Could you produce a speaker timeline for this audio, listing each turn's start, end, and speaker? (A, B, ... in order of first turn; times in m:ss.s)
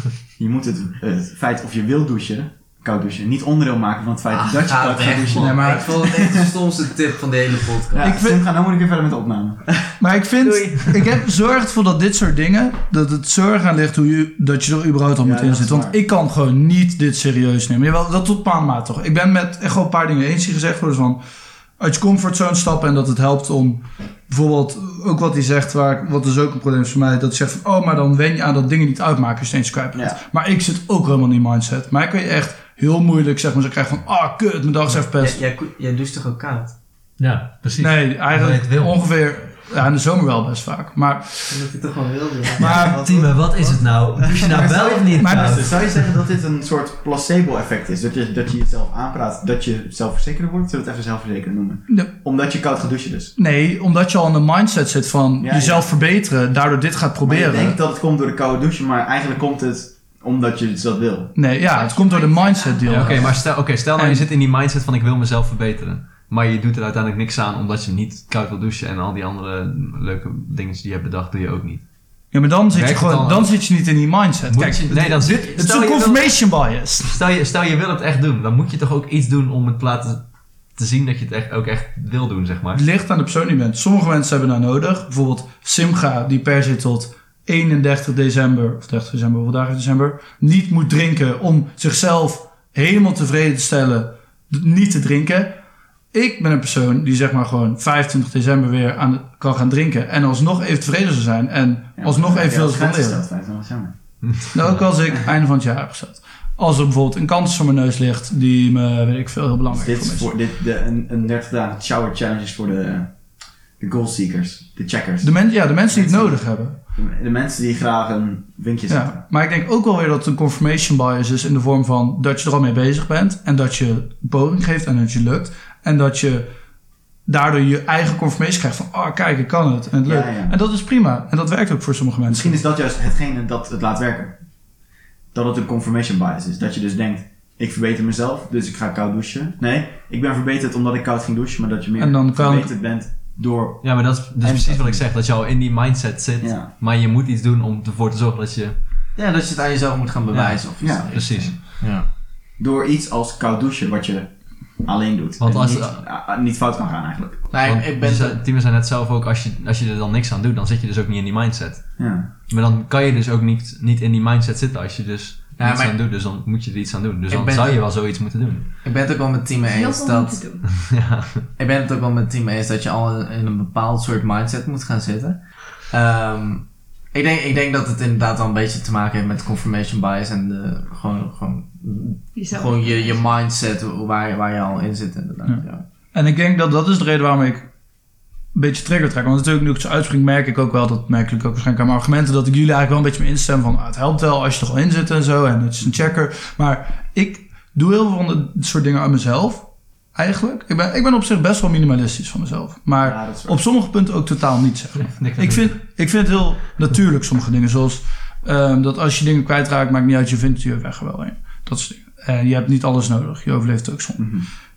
0:00.4-0:06.5 A
0:04.3-0:08.1 B
0:05.3-0:06.0 C
0:07.9-0:09.8 A
0:08.0-0:08.4 C
0:10.0-0:21.2 C
0:10.4-0:10.7 B
0:15.2-0:16.0 A
0:21.8-0:35.4 C
0:29.9-0:30.2 A
0:35.2-0:36.7 B
0:37.2-0:39.0 D
0:37.8-0:41.6 C
0:41.5-0:44.5 B
0:42.6-0:43.0 C
0:42.6-0:46.1 D
0:44.2-0:53.3 A
0:45.2-0:45.6 C
0:53.4-0:57.8 C
0:55.4-0:55.9 A
0:57.2-1:01.4 A
1:01.4-1:04.2 C
1:01.6-1:03.4 E
1:02.8-1:11.8 D
1:12.3-1:17.1 C
1:12.7-1:13.6 D
1:14.5-1:16.5 D
1:17.0-1:22.8 D
1:22.7-1:35.6 C
1:36.1-1:43.2 C
1:42.0-1:43.9 A
1:44.2-1:44.8 D
1:44.5-1:50.3 C
1:49.7-1:53.1 A
1:53.8-1:55.4 A
1:55.2-1:56.8 C
1:55.9-1:59.2 A
1:58.9-2:06.5 C
2:07.2-2:12.6 C
2:10.0-2:10.6 A
2:12.3-2:14.4 A
2:15.3-2:25.0 A
2:22.0-2:22.7 C
2:23.8-2:28.8 D
2:26.4-2:26.7 A
2:29.2-2:32.0 B
2:30.3-2:31.6 D
2:30.8-2:31.2 A
2:32.6-2:37.5 A
2:35.4-2:36.0 D
2:37.5-2:38.4 B
2:37.6-2:48.7 D
2:42.0-2:42.3 A
2:45.6-2:45.9 B
2:47.3-2:47.8 B
2:48.8-2:50.4 B
2:49.6-2:50.7 E
2:50.7-2:51.5 D
2:51.6-3:05.8 B
3:02.3-3:03.2 E
3:05.4-3:07.7 C
3:08.5-3:34.2 C
3:23.0-3:23.6 A
3:25.0-3:25.8 D
3:34.2-3:34.5 A